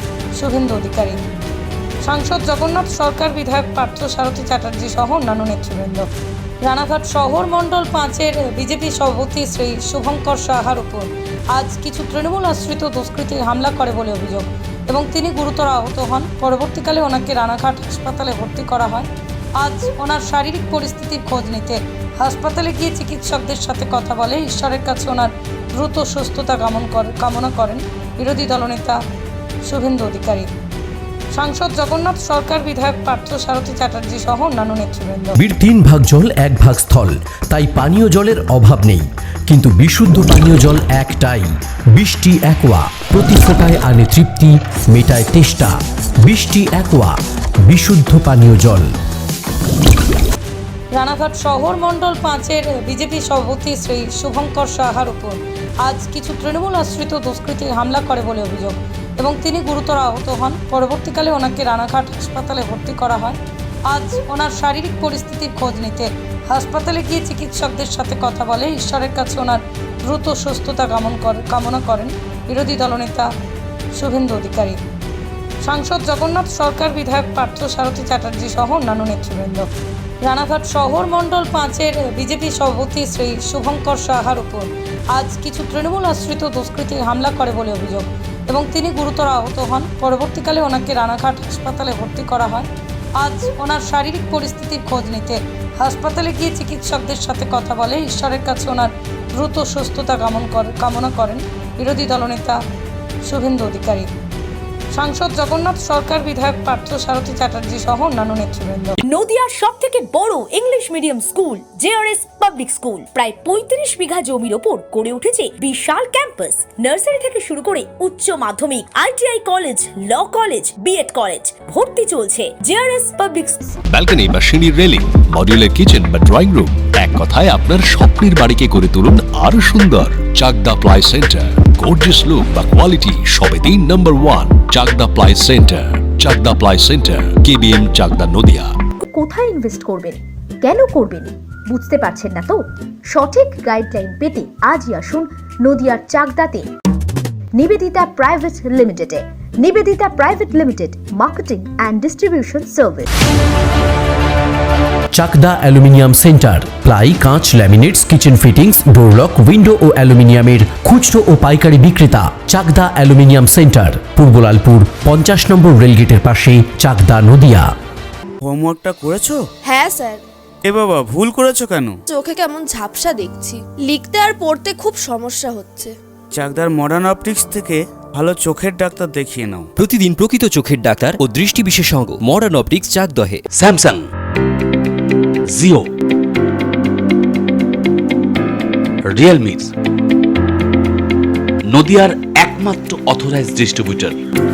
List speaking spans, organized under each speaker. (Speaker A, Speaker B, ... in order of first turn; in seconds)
Speaker A: 0.3-1.2, 2.0-6.1, 6.6-29.0, 29.6-30.5, 31.3-35.4, 50.9-73.3, 73.9-74.8, 75.6-79.7, 80.2-102.6, 103.2-104.1, 104.9-109.0
Speaker B: 35.4-48.9, 155.1-167.7
Speaker C: 109.0-123.7
Speaker D: 123.9-138.7
Speaker E: 139.0-146.7, 147.5-153.1
Speaker F: 168.4-169.4, 170.6-172.0, 176.3-179.7
Speaker G: 169.6-170.2, 172.1-175.9
Speaker H: 179.8-183.4
Speaker I: 183.5-184.1, 185.5-185.9, 189.1-189.7, 191.7-194.2